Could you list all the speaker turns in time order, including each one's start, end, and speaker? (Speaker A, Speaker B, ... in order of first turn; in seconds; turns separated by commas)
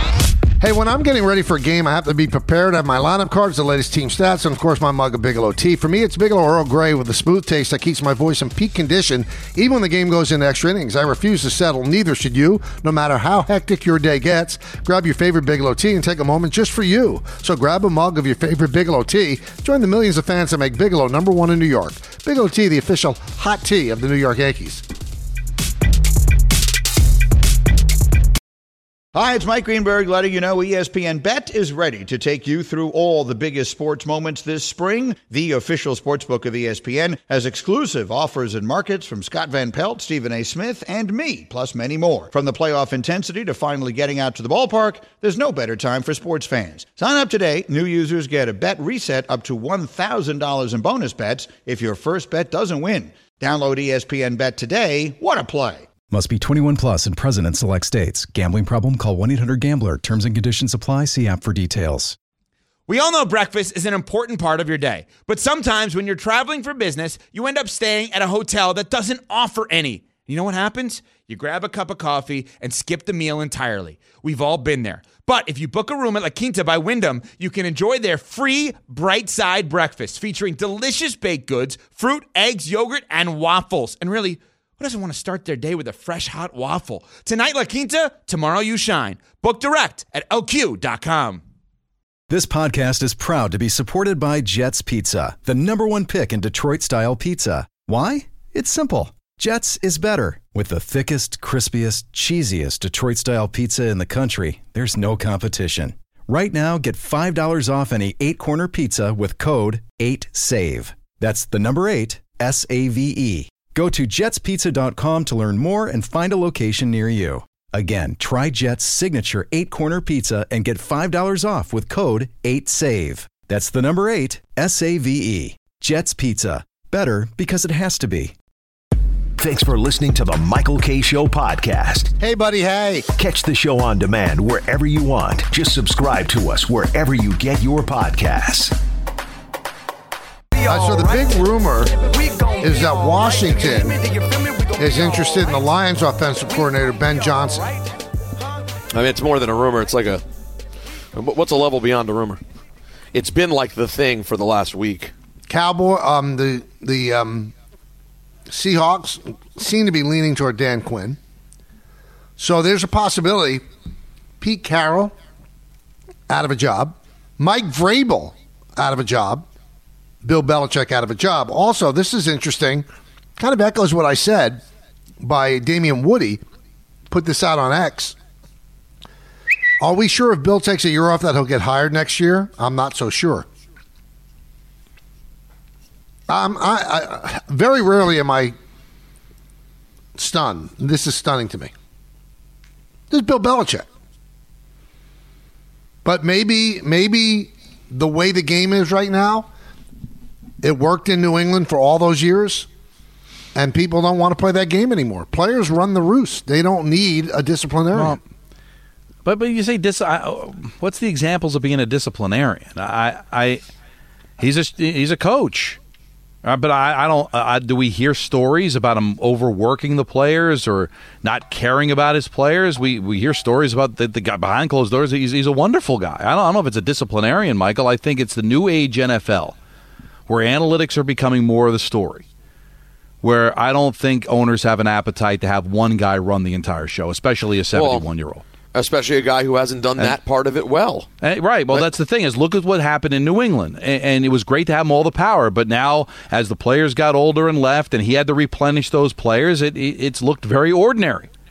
Speaker A: 0.6-24.8, Speaker B: 29.1-55.9, Speaker C: 56.1-62.1, Speaker D: 62.9-91.4, Speaker C: 92.3-128.3, Speaker E: 129.4-132.1, Speaker A: 132.2-133.1, Speaker E: 133.2-138.7, Speaker A: 140.6-141.9, Speaker A: 142.6-144.0, Speaker A: 144.8-147.7, Speaker F: 148.9-150.2, Speaker F: 151.1-152.4, Speaker F: 153.1-155.1, Speaker A: 155.5-157.5, Speaker A: 158.5-161.2, Speaker A: 162.4-163.6, Speaker A: 164.4-165.1, Speaker A: 166.3-169.4, Speaker A: 170.2-172.8, Speaker A: 173.4-174.6, Speaker A: 175.2-176.4, Speaker A: 177.1-178.2, Speaker A: 179.8-183.4, Speaker A: 186.3-188.5, Speaker A: 190.2-191.7, Speaker A: 193.1-193.8, Speaker A: 196.0-199.5, Speaker A: 200.6-202.7, Speaker A: 203.5-208.2, Speaker G: 207.9-208.2, Speaker G: 209.2-213.6, Speaker G: 214.4-215.8, Speaker G: 216.4-229.6, Speaker G: 230.3-232.2, Speaker G: 233.2-238.4, Speaker F: 237.7-238.1, Speaker F: 238.7-241.1, Speaker G: 241.2-251.3